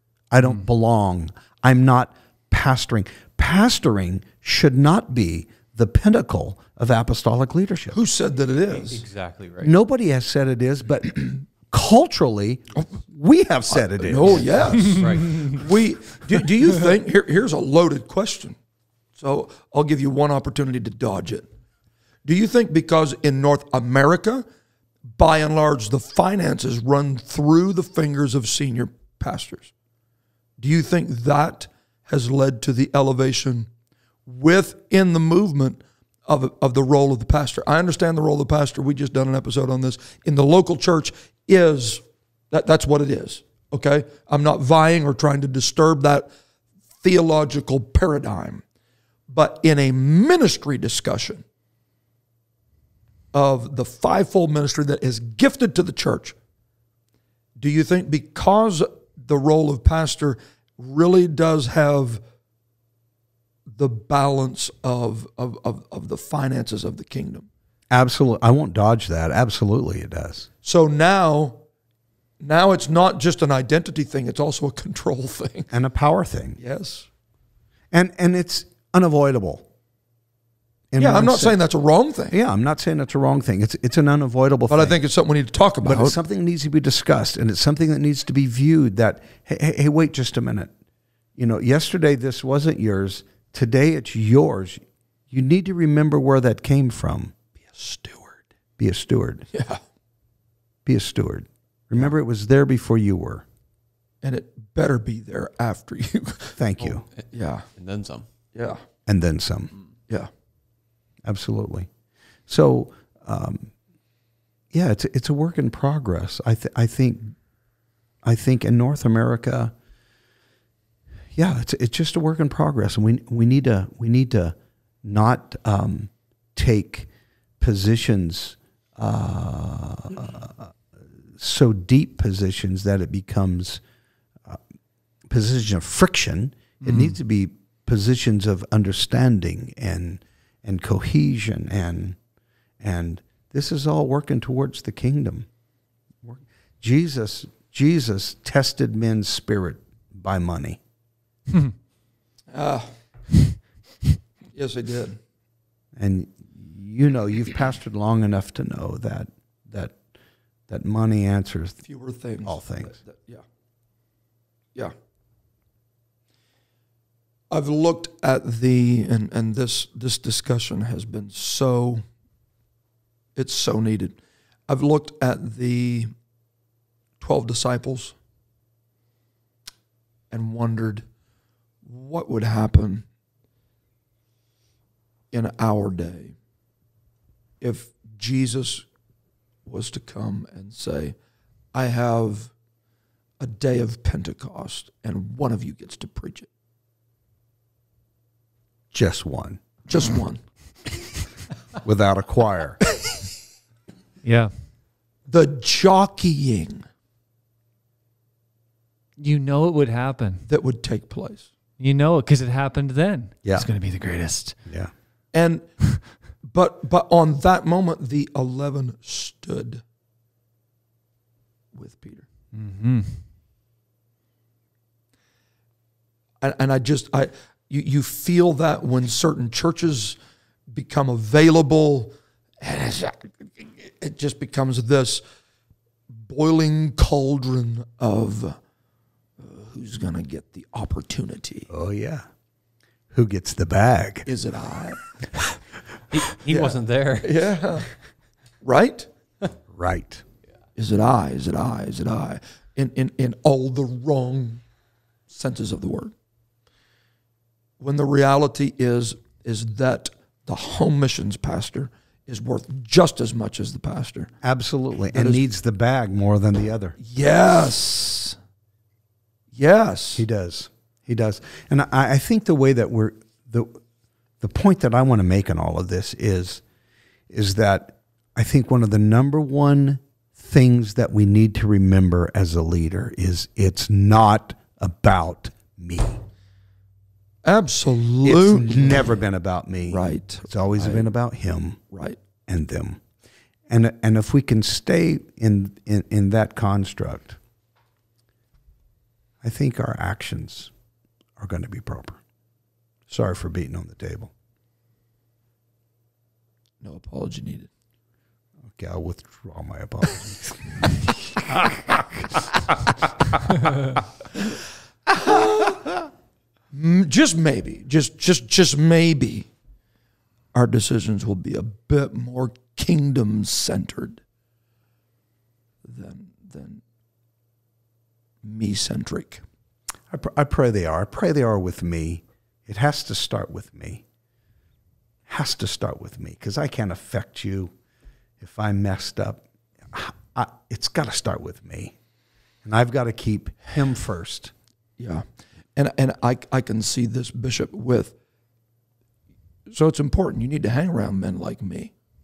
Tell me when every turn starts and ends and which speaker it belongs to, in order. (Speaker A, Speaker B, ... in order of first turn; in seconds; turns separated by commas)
Speaker A: 0.3-8.0, Speaker B: 7.9-9.0, Speaker C: 8.7-9.7, Speaker A: 9.6-15.0, Speaker B: 13.7-18.6, Speaker C: 15.0-15.6, Speaker B: 19.1-21.4, Speaker B: 22.2-24.4, Speaker B: 25.1-29.7, Speaker B: 30.6-33.7, Speaker B: 34.2-46.3, Speaker B: 47.0-48.6, Speaker B: 49.3-51.4, Speaker B: 53.3-56.3, Speaker B: 57.6-62.2, Speaker B: 63.8-67.5, Speaker A: 67.9-70.5, Speaker B: 70.6-71.6, Speaker B: 72.4-75.7, Speaker A: 75.7-76.6, Speaker B: 76.6-77.0, Speaker A: 77.9-79.7, Speaker A: 80.9-81.6, Speaker B: 81.0-82.4, Speaker A: 82.3-85.0, Speaker B: 84.7-86.2, Speaker A: 85.8-90.7, Speaker A: 91.3-97.3, Speaker B: 97.7-98.4, Speaker A: 98.8-99.5, Speaker B: 99.5-99.8, Speaker A: 100.8-103.4, Speaker B: 104.2-106.6, Speaker A: 106.6-107.0, Speaker C: 107.2-108.2, Speaker B: 107.3-107.7, Speaker B: 108.5-108.8, Speaker A: 109.0-109.7, Speaker A: 111.2-111.9, Speaker A: 112.5-113.7, Speaker A: 114.7-117.3, Speaker A: 118.2-119.7, Speaker A: 121.3-127.1, Speaker A: 127.6-130.7, Speaker A: 131.3-133.8, Speaker A: 135.3-142.2, Speaker D: 136.8-137.1, Speaker A: 142.8-145.5, Speaker A: 146.2-150.8, Speaker B: 152.5-153.0, Speaker B: 154.5-155.2, Speaker A: 155.9-160.0, Speaker A: 160.7-161.8, Speaker B: 161.8-163.4, Speaker A: 162.4-162.9, Speaker B: 167.5-172.0, Speaker B: 173.3-174.2, Speaker B: 174.7-176.1, Speaker B: 177.2-178.1, Speaker B: 180.3-181.0, Speaker B: 181.8-183.0, Speaker B: 185.3-186.3, Speaker B: 187.6-188.8, Speaker B: 189.7-191.1, Speaker B: 191.7-192.5, Speaker B: 193.4-196.5, Speaker A: 198.9-199.6, Speaker B: 199.9-200.4, Speaker A: 201.8-202.8, Speaker D: 204.2-204.5, Speaker B: 205.3-206.8, Speaker D: 209.2-210.4, Speaker B: 210.5-211.5, Speaker D: 211.8-214.6, Speaker A: 214.7-214.9, Speaker B: 215.3-219.8, Speaker B: 221.7-222.2, Speaker D: 222.5-223.2, Speaker B: 226.4-230.2, Speaker B: 230.7-235.2, Speaker B: 236.1-238.6, Speaker B: 239.4-241.7, Speaker A: 241.7-242.2, Speaker A: 243.1-244.3, Speaker B: 244.2-245.1, Speaker C: 246.1-247.8, Speaker B: 246.5-247.9, Speaker B: 248.6-249.1, Speaker A: 249.7-250.2, Speaker B: 250.8-254.6, Speaker B: 255.3-256.1, Speaker B: 257.8-264.3, Speaker A: 264.4-266.9, Speaker B: 265.1-265.4, Speaker B: 267.0-268.4, Speaker B: 269.5-270.2, Speaker A: 270.1-273.8, Speaker A: 274.4-276.6, Speaker A: 277.3-286.2, Speaker B: 287.4-289.1, Speaker A: 288.2-291.8, Speaker B: 289.9-291.1, Speaker B: 291.9-292.2, Speaker A: 292.5-293.0, Speaker A: 293.7-297.4, Speaker A: 299.4-300.7, Speaker A: 301.4-302.2, Speaker A: 303.1-304.3, Speaker B: 306.8-307.7, Speaker A: 308.7-313.1, Speaker B: 315.2-315.8, Speaker B: 316.7-319.5, Speaker B: 320.5-324.2, Speaker B: 325.8-326.8, Speaker B: 328.4-329.4, Speaker A: 330.1-334.0, Speaker A: 335.3-337.7, Speaker A: 338.4-341.9, Speaker A: 342.6-344.5, Speaker B: 345.0-345.2, Speaker B: 345.7-348.1, Speaker B: 349.7-351.9